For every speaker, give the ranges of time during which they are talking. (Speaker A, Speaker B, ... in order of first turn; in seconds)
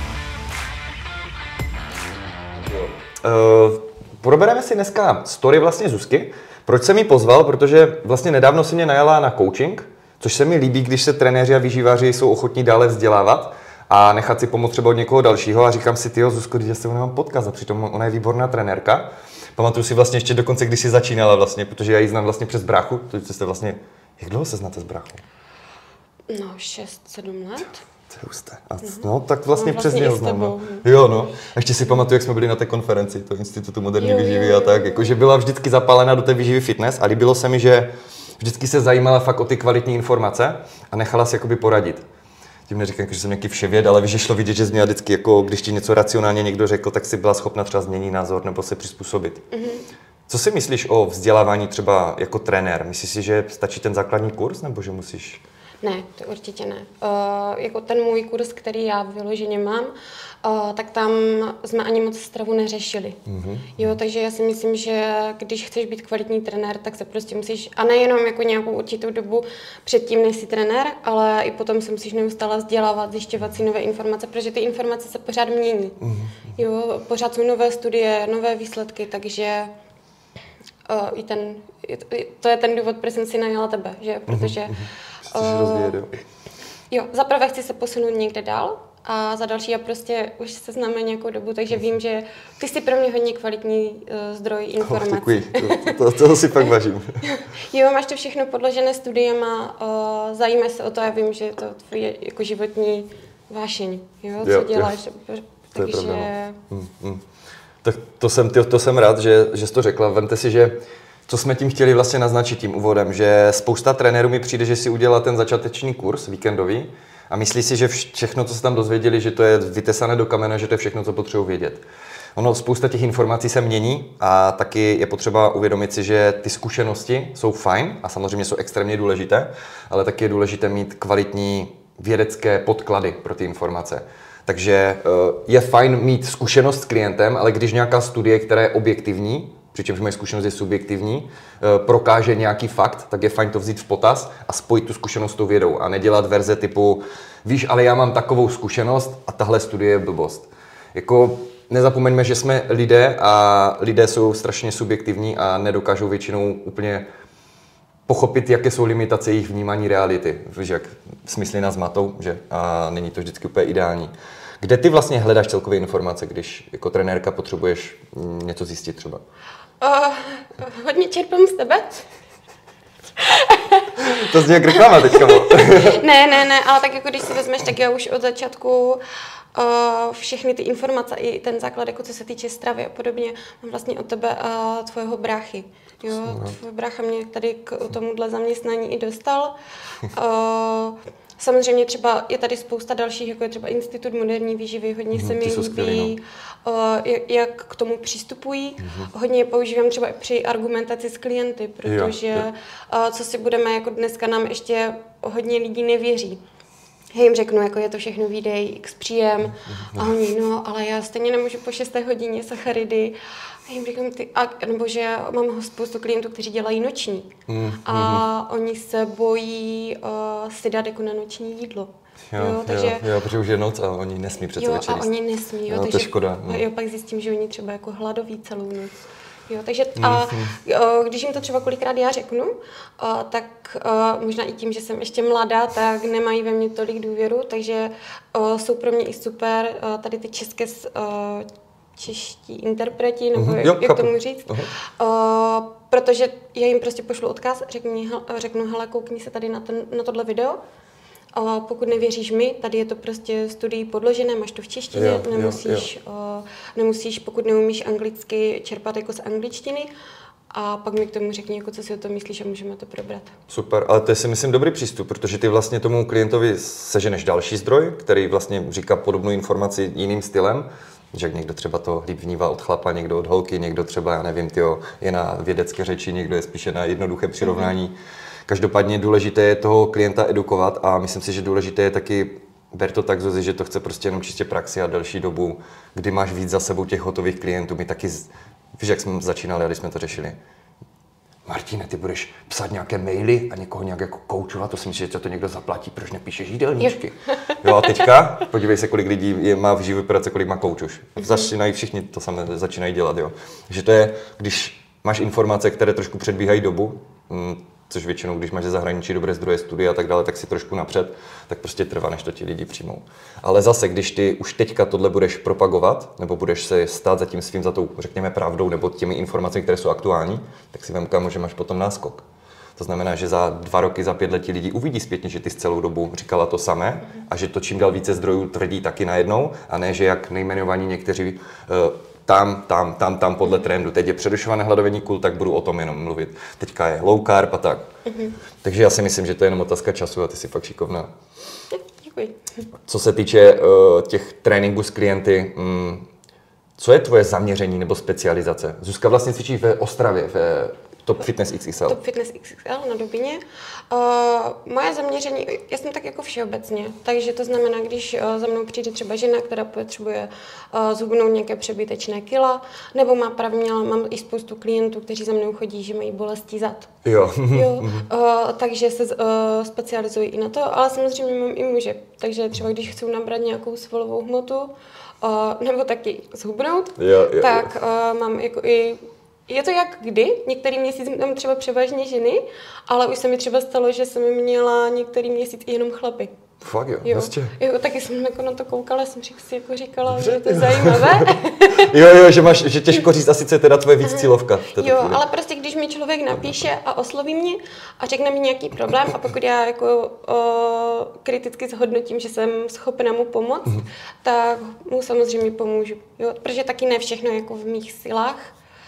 Speaker A: 2.7-25.2, 28.1-42.0, 42.7-49.4, 50.3-55.4, 63.2-64.0, 76.0-76.5, 84.3-86.1, 94.8-97.3, 104.4-105.0, 105.7-107.2, 107.8-121.8, 122.3-157.1, 158.1-169.2, 174.0-176.1, 186.2-186.6, 195.1-196.2, 198.8-199.1, 201.8-202.5, 209.7-210.1, 217.5-218.3, 222.3-225.1, 225.7-226.7, 230.0-230.6, 243.3-244.7, 254.9-255.9, 263.5-277.9, 278.5-290.4, 291.5-322.2, 322.8-337.9, 338.6-341.1, 342.9-346.1, 346.8-352.0, 367.0-368.1, 377.0-377.7, 386.6-387.6, 390.1-395.2, 396.3-396.7
Speaker B: 26.3-27.8, 28.8-30.9, 34.0-35.2, 49.5-49.8, 55.8-59.9, 60.4-63.2, 63.8-76.0, 76.6-79.7, 80.9-86.0, 86.9-96.0, 97.2-106.6, 169.8-172.0, 173.2-179.0, 179.5-189.6, 190.1-206.4, 207.1-213.2, 213.7-217.3, 217.8-223.1, 224.6-228.9, 229.5-250.6, 251.3-259.9, 260.5-263.3, 277.4-277.7, 297.5-298.1, 301.2-301.5, 338.1-338.3, 341.7-342.5, 351.9-366.9, 367.5-386.3, 387.0-392.0, 394.0-408.5